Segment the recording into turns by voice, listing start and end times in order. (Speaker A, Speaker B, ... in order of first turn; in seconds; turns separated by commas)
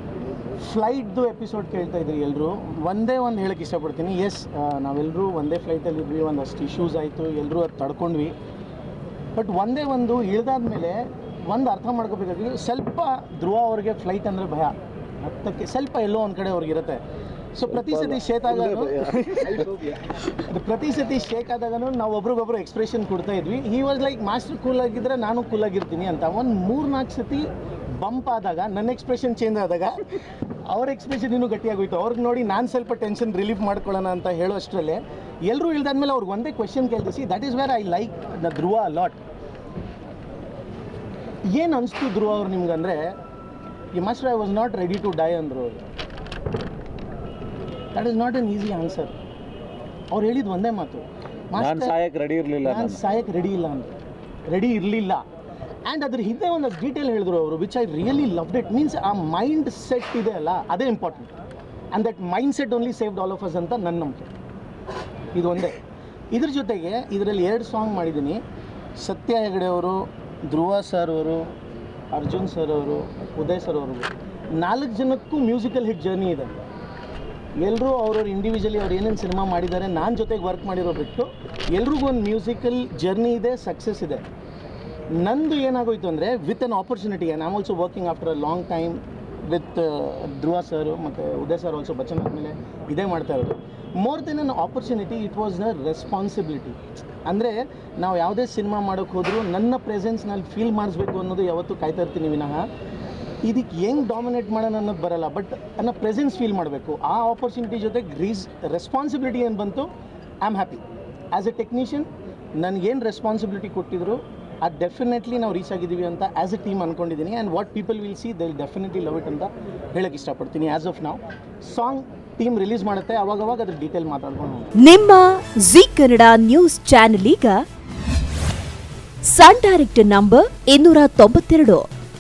Speaker A: 0.6-8.3, Speaker A: 9.3-17.0, Speaker A: 17.6-19.7, Speaker B: 17.8-19.7, Speaker A: 20.4-30.0, Speaker A: 30.7-39.2, Speaker A: 41.5-43.1, Speaker A: 43.9-45.8, Speaker A: 48.0-49.1, Speaker A: 50.1-51.9, Speaker B: 51.6-53.0, Speaker A: 52.6-53.9, Speaker A: 54.5-55.2, Speaker A: 55.9-61.3, Speaker A: 61.9-64.3, Speaker A: 65.3-65.8, Speaker A: 66.3-68.4, Speaker A: 69.0-71.5, Speaker A: 72.1-76.6, Speaker A: 77.6-84.2, Speaker A: 85.1-102.7, Speaker A: 103.4-109.9, Speaker A: 110.4-124.7, Speaker C: 124.8-127.6, Speaker C: 129.3-131.8